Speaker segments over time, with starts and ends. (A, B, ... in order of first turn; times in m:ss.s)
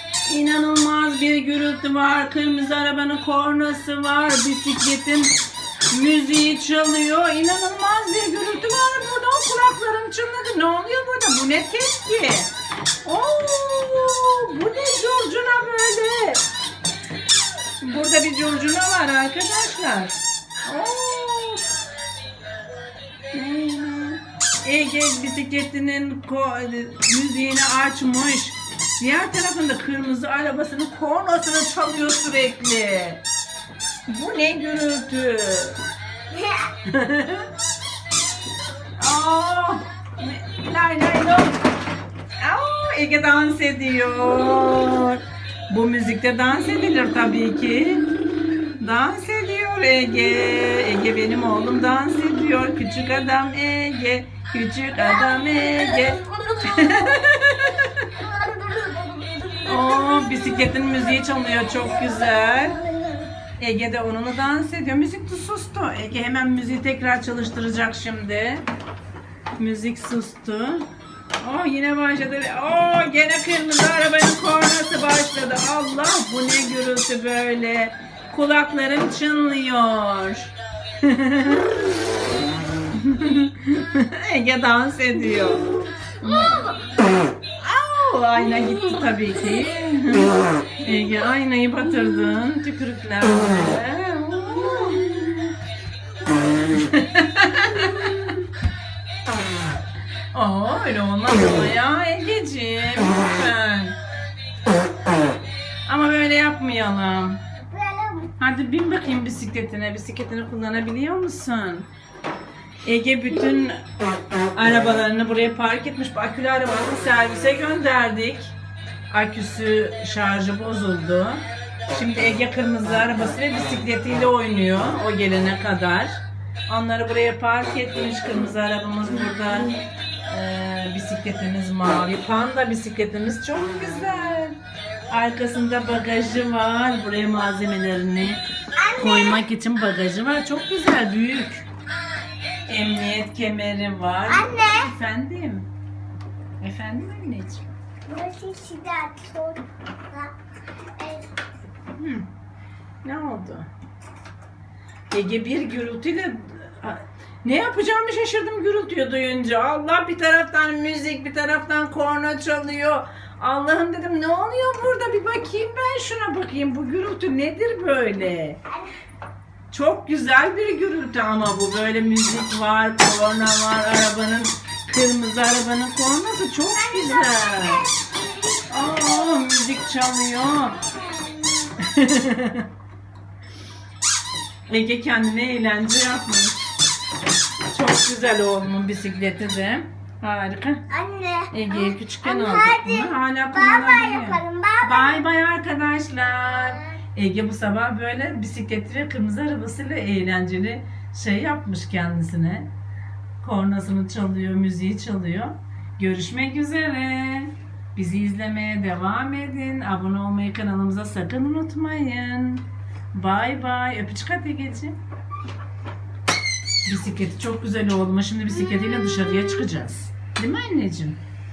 0:00.2-0:05.3 A
0:05.9-0:12.5 A
0:13.0-0:16.4 A
0:17.8-0:21.7 A
0:23.3-0:33.2 A
0:34.1-0:35.8 A
0:36.3-0:36.7 B
0:36.8-0:37.5 A
0:39.0-0:41.6 A
0:42.4-0:48.1 A
0:48.8-0:58.1 A
0:55.3-0:57.1 B
0:58.1-1:00.5 B
0:59.6-1:02.8 A
1:01.9-1:03.3 B
1:03.6-1:08.6 A
1:09.6-1:10.9 A
1:11.4-1:21.7 A
1:22.9-1:25.6 A
1:26.2-1:26.7 A
1:27.6-1:35.5 A
1:36.6-1:38.4 A
1:40.3-1:43.9 A
1:45.8-1:47.4 A
1:47.6-1:48.3 B
1:48.4-1:51.9 A
1:52.8-1:53.8 A
1:54.5-1:58.5 A
1:59.1-2:14.6 A
2:15.1-2:18.4 A
2:18.8-2:19.4 B
2:19.0-2:21.7 A
2:22.7-2:25.7 A
2:24.3-2:24.9 B
2:26.6-2:27.6 A
2:28.1-2:30.3 B
2:31.0-2:31.3 B
2:31.9-2:32.2 A
2:33.0-2:33.7 A
2:35.1-2:48.6 A
2:49.7-2:57.8 A
2:56.8-2:59.5 B
2:58.7-3:00.8 A
3:00.8-3:01.8 B
3:01.8-3:02.6 A
3:04.7-3:06.7 A
3:07.7-3:10.8 A
3:10.9-3:15.2 B
3:11.5-3:22.7 A
3:23.4-3:35.0 A
3:36.8-3:41.2 A